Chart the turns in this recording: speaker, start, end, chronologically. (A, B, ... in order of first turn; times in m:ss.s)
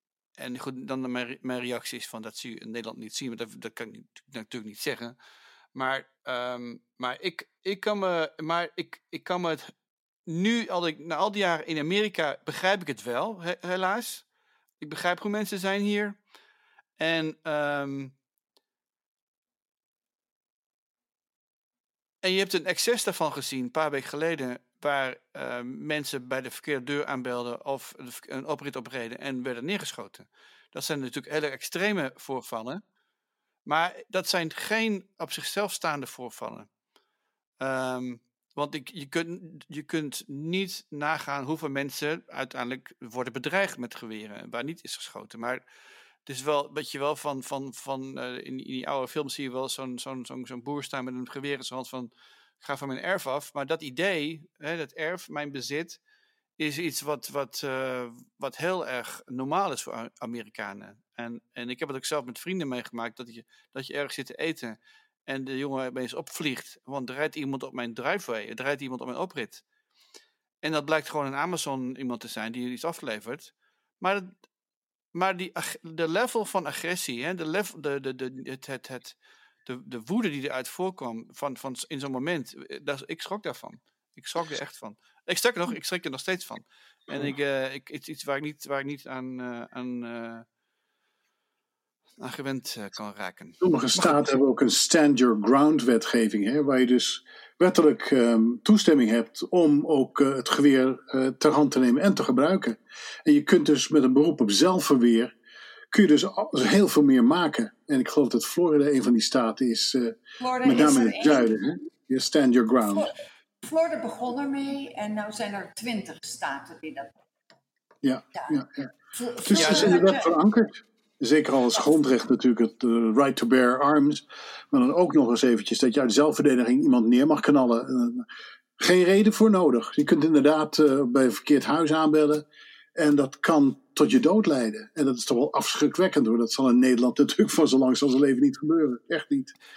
0:00.4-0:05.2 A
0:05.8-0:09.7 A
0:10.3-0:14.3 A
0:14.8-0:16.2 A
0:17.0-0:18.1 A
0:22.2-0:32.8 A
0:33.7-0:36.7 A
0:37.6-0:45.6 A
0:46.3-0:56.0 A
0:56.6-1:09.6 A
1:10.6-1:14.3 A
1:15.1-1:30.5 A
1:32.2-1:34.3 A
1:33.6-1:45.3 B
1:45.9-1:53.1 B
1:50.4-1:51.5 C
1:53.6-1:57.1 C
1:58.0-1:58.9 B
1:59.1-2:00.4 C
1:59.4-2:08.2 B
1:59.5-2:00.0 A
2:08.8-2:12.4 B
2:13.0-2:19.5 B